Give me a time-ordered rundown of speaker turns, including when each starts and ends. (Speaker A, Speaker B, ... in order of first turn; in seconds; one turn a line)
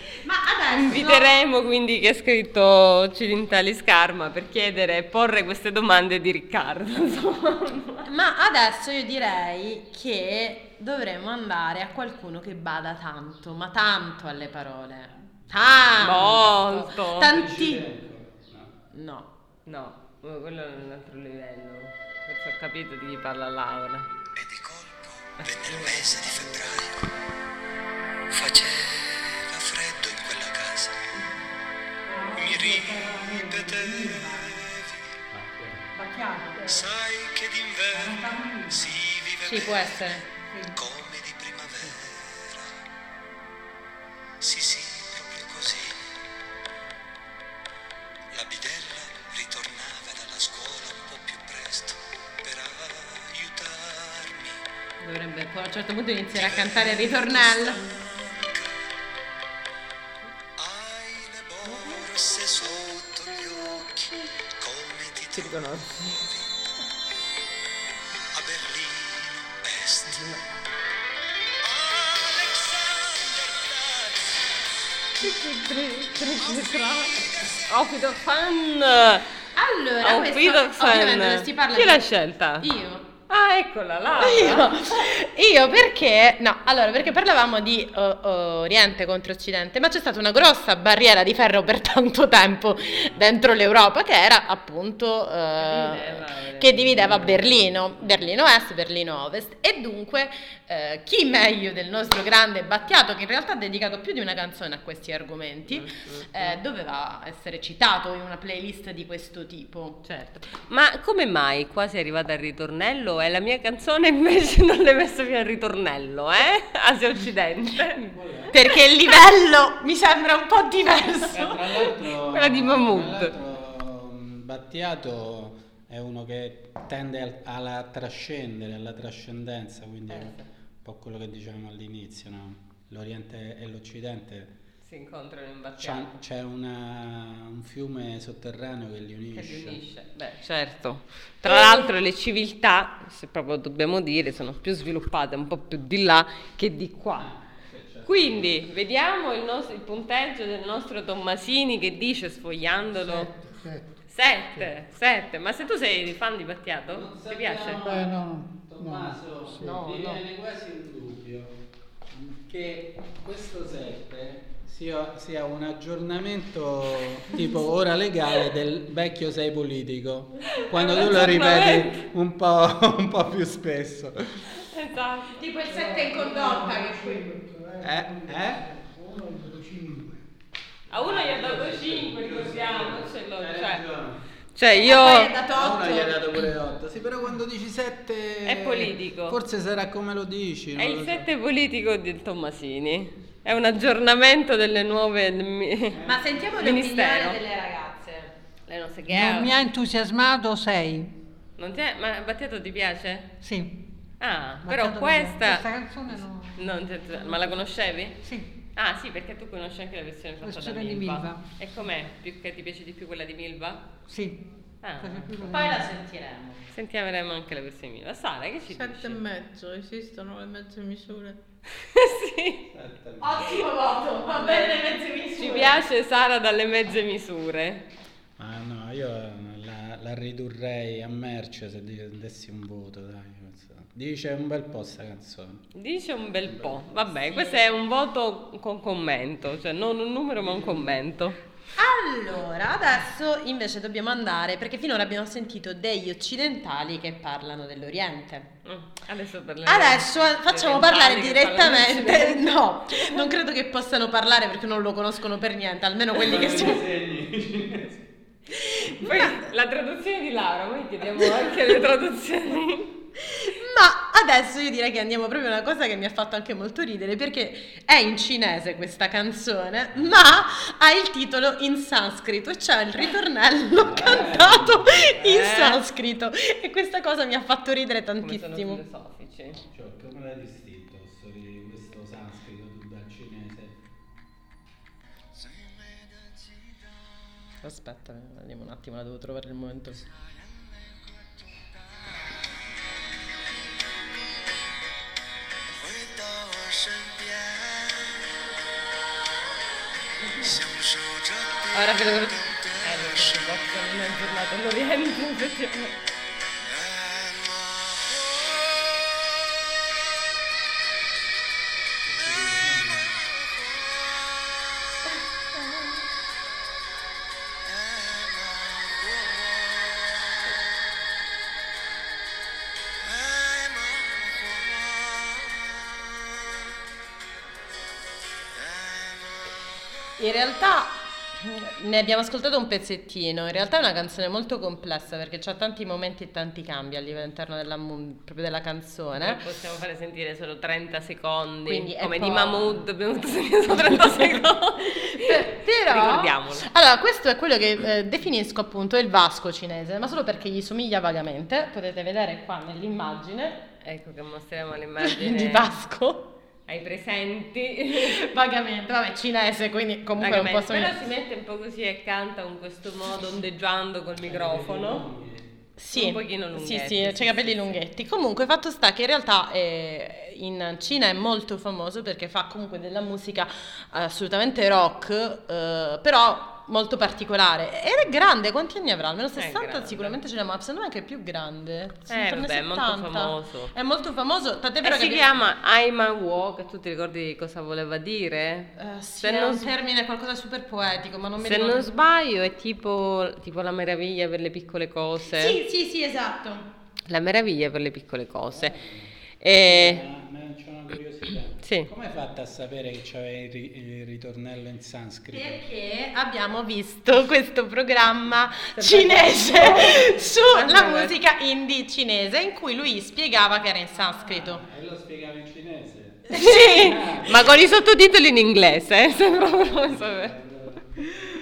Speaker A: 0.2-1.3
Speaker B: 0.7-8.1
Speaker A: 8.1-17.8
Speaker C: 16.0-16.5
Speaker B: 16.0-17.3
Speaker C: 17.2-18.7
Speaker A: 18.9-19.3
Speaker B: 19.7-24.1
Speaker D: 24.3-27.0
Speaker B: 25.6-26.1
Speaker D: 28.3-31.0
Speaker E: 32.1-34.6
Speaker D: 32.4-35.1
Speaker C: 35.3-35.9
Speaker E: 35.9-36.8
Speaker D: 36.6-42.8
Speaker E: 37.9-39.0
Speaker A: 39.5-40.2
Speaker E: 40.4-40.8
Speaker D: 44.4-46.0
Speaker D: 48.3-54.6
Speaker A: 55.0-57.8
Speaker D: 56.3-58.8
Speaker D: 60.6-66.5
Speaker B: 65.3-66.2
Speaker D: 68.3-70.3
Speaker D: 71.6-74.3
Speaker B: 75.2-79.3
Speaker A: 79.5-82.1
Speaker B: 80.0-82.7
Speaker A: 82.6-83.1
Speaker B: 83.3-84.7
Speaker A: 84.2-110.0
Speaker B: 95.6-97.6
Speaker B: 105.7-106.6
Speaker B: 110.0-118.1
Speaker C: 118.0-118.5
Speaker A: 118.5-121.6
Speaker C: 121.3-134.5
Speaker B: 121.4-123.3
Speaker B: 130.1-130.4
Speaker B: 134.8-136.2
Speaker C: 135.8-139.8
Speaker B: 139.3-147.3
Speaker A: 141.4-141.9
Speaker C: 147.2-148.7
Speaker B: 148.1-153.3
Speaker F: 153.0-153.9
Speaker B: 154.1-157.8
Speaker C: 156.9-161.6
Speaker F: 157.8-159.8
Speaker B: 159.6-160.2
Speaker C: 162.3-174.5
Speaker B: 170.5-172.0
Speaker B: 174.6-175.5
Speaker A: 175.4-177.3
Speaker F: 175.7-180.2
Speaker C: 177.8-178.6
Speaker B: 180.9-183.8
Speaker C: 180.9-184.2
Speaker B: 184.6-185.3
Speaker A: 184.8-186.3
Speaker C: 185.5-191.3
Speaker B: 188.4-189.4
Speaker B: 190.8-196.0
Speaker C: 195.9-196.7
Speaker A: 196.1-198.3
Speaker B: 196.6-197.4
Speaker B: 198.7-199.6
Speaker E: 199.1-201.2
Speaker B: 201.6-203.3
Speaker E: 203.4-203.8
Speaker B: 204.2-208.2
Speaker E: 204.7-207.6
Speaker E: 208.2-208.5
Speaker B: 208.8-213.9
Speaker E: 210.4-211.5
Speaker E: 214.1-214.4
Speaker B: 214.8-215.7
Speaker E: 215.0-215.8
Speaker A: 215.5-216.6
Speaker B: 216.7-219.2
Speaker G: 218.7-221.4
Speaker B: 221.7-222.6
Speaker C: 222.7-223.5
Speaker A: 223.2-225.8
Speaker B: 224.4-224.8
Speaker B: 225.4-227.8
Speaker C: 228.4-235.7
Speaker B: 235.8-241.4
Speaker C: 236.4-237.1
Speaker C: 240.3-241.0
Speaker A: 241.8-248.5
Speaker B: 248.7-253.3
Speaker A: 249.7-256.8
Speaker C: 256.1-258.1
Speaker A: 258.5-259.5
Speaker B: 259.0-262.9
Speaker A: 263.3-278.8
Speaker C: 269.9-270.6
Speaker C: 273.8-275.3
Speaker B: 275.2-275.8
Speaker B: 278.2-279.6
Speaker C: 279.7-283.8
Speaker D: 285.4-287.1
Speaker A: 287.6-290.0
Speaker D: 290.3-292.4
Speaker D: 295.8-298.3
Speaker D: 300.4-303.5
Speaker A: 301.7-302.4
Speaker B: 302.8-305.9
Speaker D: 306.7-309.2
Speaker C: 312.1-313.2
Speaker D: 314.0-314.4
Speaker D: 317.7-320.4
Speaker D: 323.0-325.6
Speaker D: 328.6-329.4
Speaker A: 330.2-339.4
Speaker B: 339.2-346.7
Speaker A: 341.7-342.7
Speaker A: 344.0-344.3
Speaker A: 344.8-353.6
Speaker B: 353.8-355.7
Speaker A: 355.0-356.3
Speaker B: 356.7-358.2
Speaker A: 358.0-361.0
Speaker C: 360.2-360.7
Speaker B: 360.2-365.1
Speaker C: 364.2-365.5
Speaker A: 365.8-385.3
Speaker B: 365.9-367.8
Speaker B: 379.4-380.2
Speaker B: 382.1-383.7
Speaker B: 384.8-389.7
Speaker A: 388.8-391.9
Speaker B: 391.4-395.6
Speaker A: 395.3-396.7
Speaker B: 397.1-398.8
Speaker C: 398.5-405.6
Speaker B: 399.4-400.0
Speaker B: 401.6-401.9
Speaker A: 405.3-414.6
Speaker B: 408.8-411.1
Speaker C: 414.2-417.5
Speaker A: 416.3-417.6
Speaker B: 416.3-420.3
Speaker C: 419.4-421.0